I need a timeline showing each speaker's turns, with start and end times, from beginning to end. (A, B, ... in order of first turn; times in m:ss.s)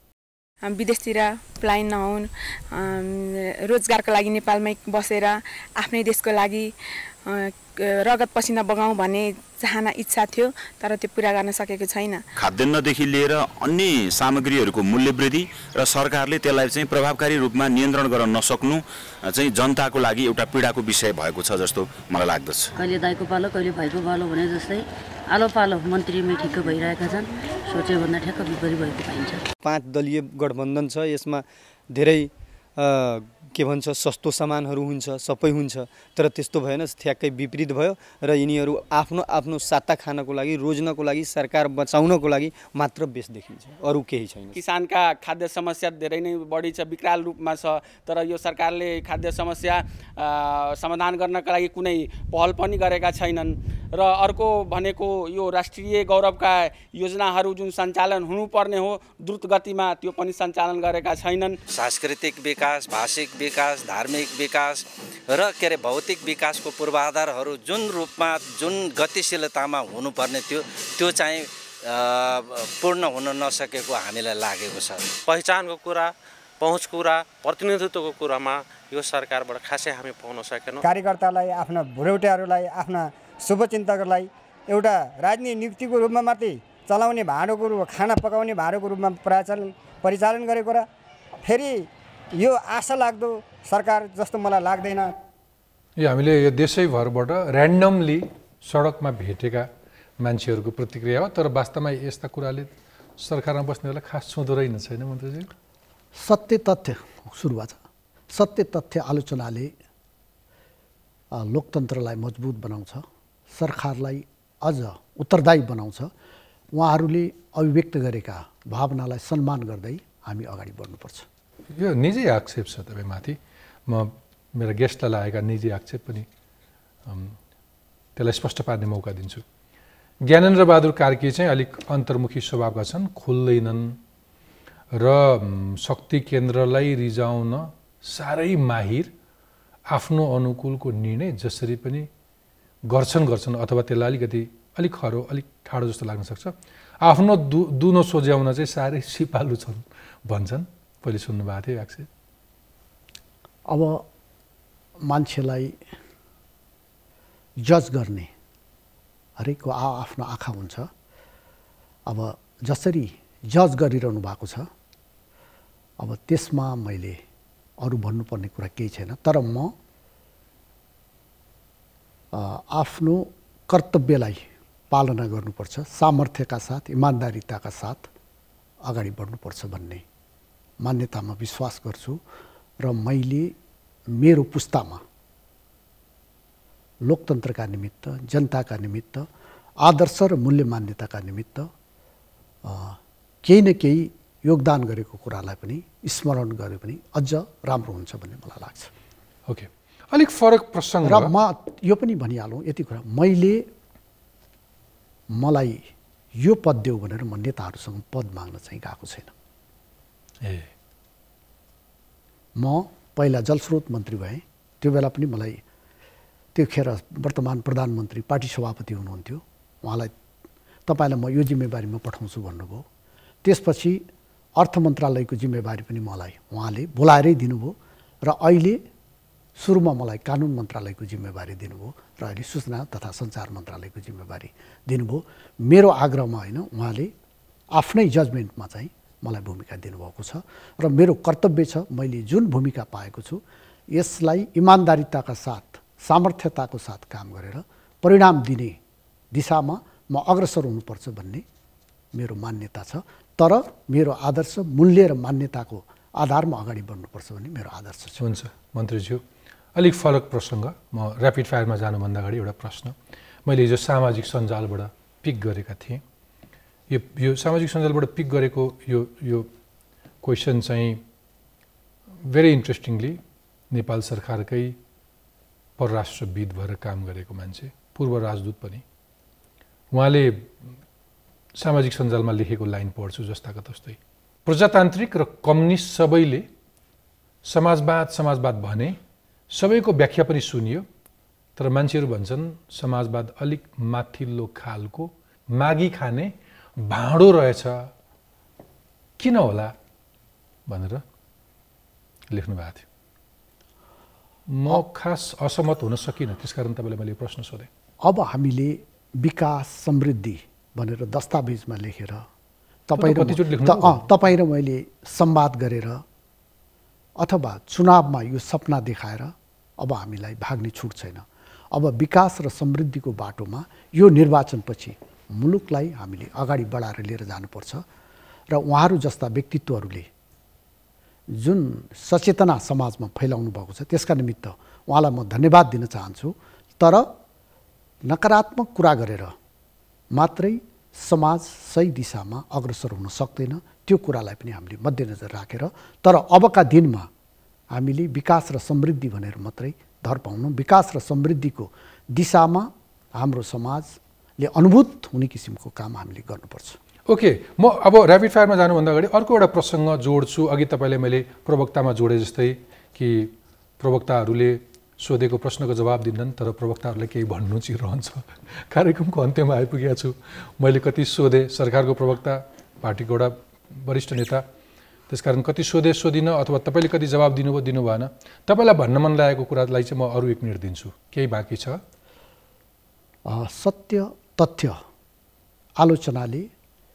0:00.6-0:12.2 A
0:12.4-0:22.7 B
0:22.8-0:29.4 C
0:29.6-0:44.6 D
0:44.5-1:01.6 E
1:01.7-1:15.2 F
1:15.2-1:20.9 G
1:20.8-1:30.9 H
1:31.4-1:35.1 H
1:36.0-1:45.5 I
1:46.1-1:47.8 J
1:48.3-1:49.7 J
1:51.3-1:56.1 J
1:56.7-2:01.3 J
2:01.7-2:06.3 I
2:07.1-2:07.4 I
2:08.2-2:09.4 I
2:10.2-2:14.0 I
2:14.9-2:19.1 I
2:19.9-2:22.1 I
2:22.9-2:32.1 I
2:33.7-2:34.0 J
2:35.0-2:35.7 J
2:37.6-2:38.3 J
2:39.4-2:40.9 J
2:42.1-2:44.7 J
2:46.0-2:47.2 J
2:47.8-2:49.7 J
2:52.3-2:58.1 J
2:58.8-3:00.0 J
3:00.8-3:02.2 J
3:02.8-3:03.5 J
3:04.1-3:05.0 J
3:07.0-3:09.3 J
3:09.8-3:11.7 J
3:12.6-3:18.9 J
3:19.5-3:21.3 I
3:21.0-3:23.7 J
3:25.3-3:29.3 J
3:30.4-3:30.7 I
3:32.6-3:35.6 J
3:36.6-3:40.1 J
3:40.9-3:42.8 J
3:43.4-3:44.0 J
3:44.6-3:48.8 J
3:49.6-3:57.1 J
3:57.7-4:08.8 J
4:09.3-4:11.4 J
4:12.1-4:18.2 J
4:18.2-4:19.2 I
4:19.7-4:26.0 I
4:26.9-4:29.5 I
4:30.2-4:31.0 I
4:32.2-4:34.8 I
4:35.8-4:38.8 I
4:39.9-4:40.6 I
4:41.6-4:46.5 I
4:47.4-4:49.0 I
4:49.5-4:50.9 I
4:51.6-4:57.9 I
4:59.2-4:59.7 I
5:00.7-5:01.0 I
5:02.3-5:02.8 I
5:04.5-5:07.7 I
5:08.0-5:12.3 J
5:12.9-5:16.0 J
5:13.0-5:14.1 I
5:17.2-5:27.8 J
5:28.5-5:30.1 J
5:31.4-5:37.1 J
5:38.1-5:39.3 J
5:40.1-5:47.1 J
5:47.7-5:56.8 J
5:57.1-6:14.4 I
6:15.1-6:21.8 I
6:23.2-6:24.8 J
6:25.8-6:26.5 J